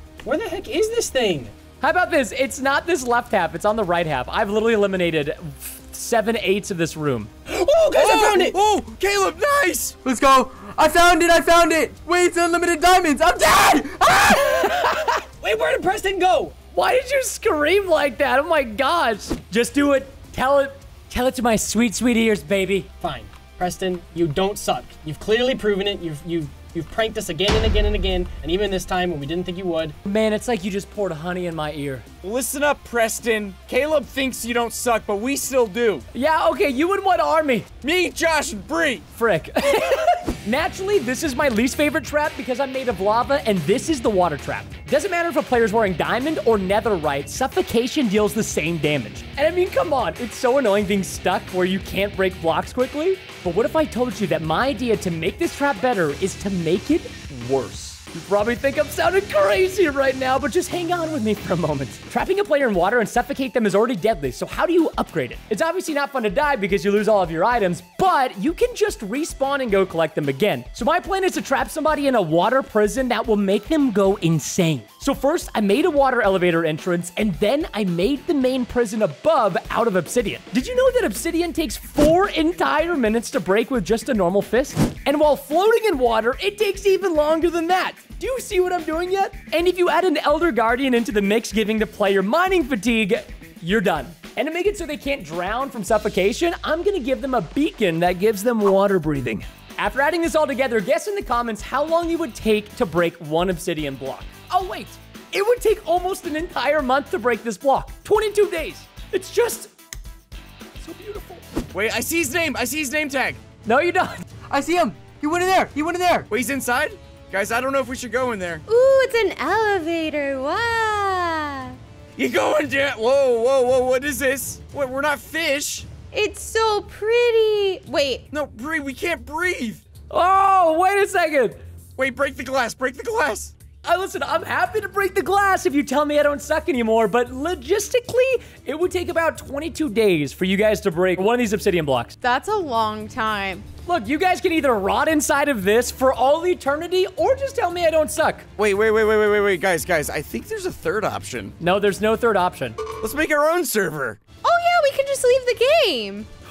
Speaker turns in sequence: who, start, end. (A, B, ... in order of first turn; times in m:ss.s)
0:00.2-0:01.5 A
0:01.8-0:07.3 B
0:07.5-0:08.6 A
0:07.9-0:10.0 C
0:10.0-0:15.0 D
0:14.7-0:15.2 B
0:15.4-0:16.5 A
0:16.7-0:22.9 B
0:23.0-0:29.9 A
0:30.0-0:32.0 B
0:32.2-0:36.0 C
0:36.1-0:37.7 B
0:37.8-0:39.1 C
0:39.1-1:49.7 B
1:50.8-1:51.4 B
1:51.7-1:53.4 C
1:53.6-1:54.2 B
1:54.5-1:56.3 D
1:56.3-1:58.6 C
1:58.7-2:01.8 E
2:02.2-2:05.9 C
2:06.1-2:08.2 E
2:08.3-2:09.8 C
2:10.1-2:11.6 B
2:12.0-2:13.5 C
2:13.8-2:22.2 B
2:22.2-2:23.6 E
2:23.8-2:28.4 B
2:28.6-2:31.5 C
2:31.6-2:32.8 B
2:33.0-2:34.2 C
2:34.4-2:36.3 E